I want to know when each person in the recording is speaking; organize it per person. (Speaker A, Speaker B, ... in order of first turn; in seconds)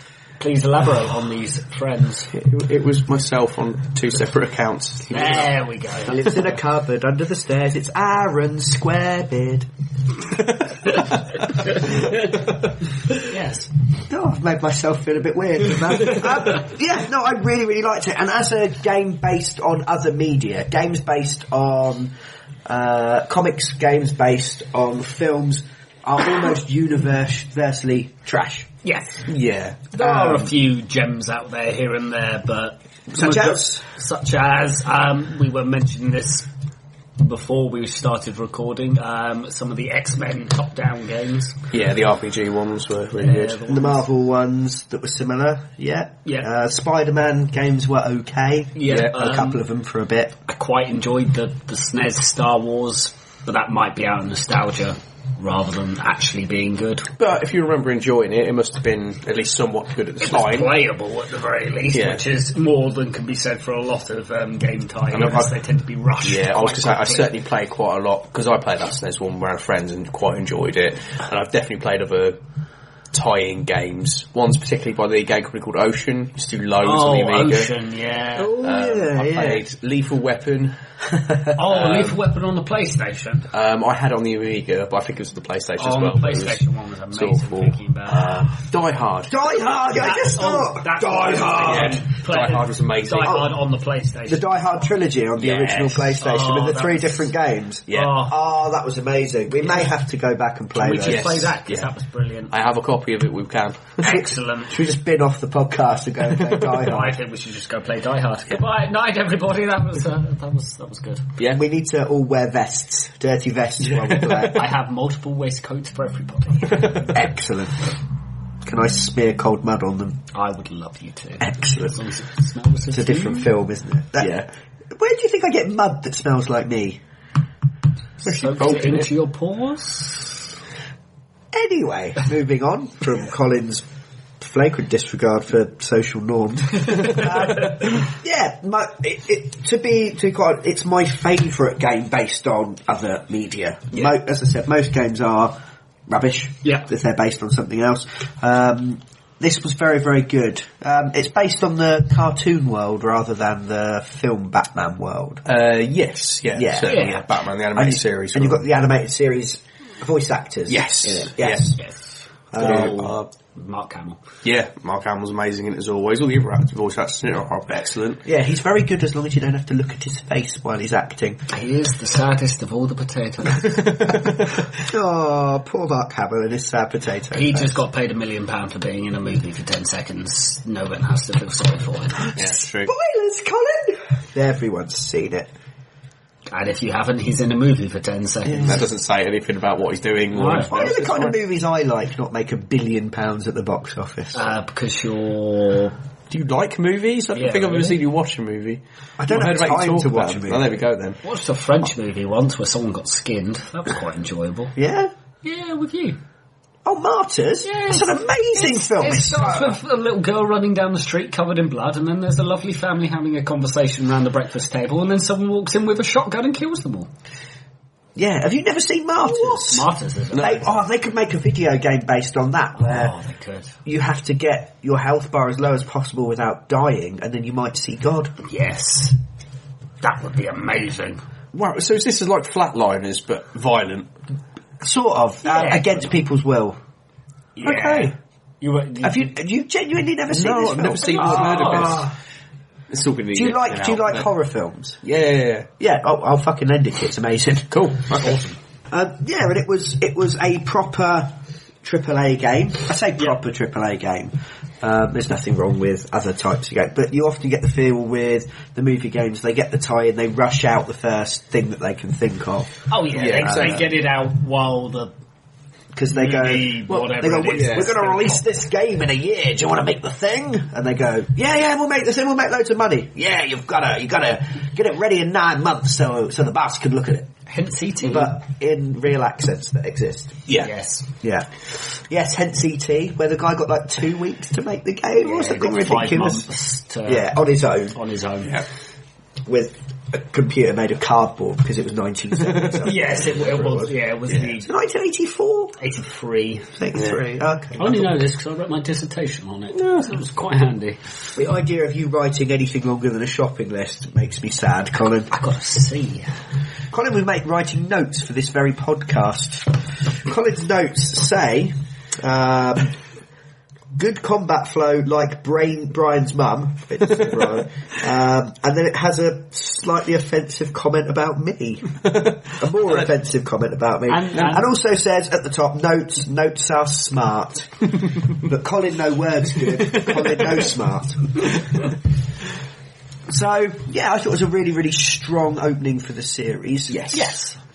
Speaker A: 0.4-2.3, 5.1-6.5, 13.2-13.7, 28.8-29.3, 29.9-36.5, 37.2-41.6, 43.2-44.0, 48.8-49.6, 50.5-57.1, 60.2-67.3, 76.8-78.6, 81.5-83.5, 85.8-88.5, 89.9-94.5, 95.4-97.2, 97.9-98.3, 99.6-99.9, 100.8-102.5, 104.0-104.8, 106.7-111.3, 114.5-117.1, 120.3-123.5, 128.2-130.4, 156.9-157.3, 162.6-164.2, 171.5-174.1, 177.3-182.4, 186.5-188.8, 190.3-190.7, 194.3-196.0, 197.3-198.0, 201.2-204.8, 205.4-206.2, 207.6-217.1, 219.2-220.8, 222.8-223.8, 228.4-229.2, 230.0-231.2, 235.4-236.1, 237.6-239.3, 241.1-242.0, 248.2-248.5, 262.9-265.1, 266.1-268.6, 277.5-278.3, 280.6-281.1, 285.2-287.3, 287.9-288.6, 292.8-294.7, 295.8-296.8, 297.8-301.0, 305.3-306.3, 324.1-324.7, 337.1-337.6
Speaker B: 2.3-5.5, 10.4-12.4, 29.3-29.9, 41.7-43.6, 57.2-60.8, 61.9-62.2, 65.1-65.5, 66.2-72.4, 73.1-77.7, 78.5-80.8, 81.6-82.2, 83.5-86.6, 87.1-89.5, 91.6-93.4, 97.9-98.2, 101.0-101.9, 102.5-104.1, 113.9-114.6, 124.2-124.5, 128.2-129.1, 137.0-137.3, 155.5-158.7, 160.7-161.7, 162.6-163.3, 164.4-168.2, 173.9-174.5, 182.3-182.9, 188.6-191.4, 196.3-201.2, 231.5-234.1, 240.3-242.1, 242.9-244.3, 245.0-245.7, 247.7-248.4, 263.1-263.9, 267.5-267.9, 299.7-300.1, 322.1-323.0, 336.9-337.2
Speaker C: 6.1-9.7, 14.1-22.1, 22.7-28.7, 30.0-30.5, 33.1-33.8, 43.7-50.4, 78.4-79.6, 89.3-92.0, 94.3-101.3, 104.0-107.2, 111.5-114.7, 117.0-117.8, 118.7-120.2, 121.4-122.0, 122.9-127.0, 131.5-133.8, 134.4-145.6, 146.1-155.4, 156.5-157.1, 157.7-161.8, 162.5-163.1, 168.2-171.4, 174.7-177.8, 182.8-185.5, 188.5-188.8, 190.7-194.4, 199.2-200.6, 204.8-205.1, 206.8-209.8, 218.2-223.1, 223.9-228.4, 234.8-236.8, 237.6-238.1, 239.0-242.1, 243.3-245.0, 245.8-248.0, 248.9-262.7, 263.2-263.8, 265.9-277.3, 278.0-280.4, 281.2-286.5, 287.1-288.0, 289.5-293.9, 294.6-295.8, 296.8-298.2, 301.4-305.3, 306.9-312.9, 313.9-331.5, 333.3-337.1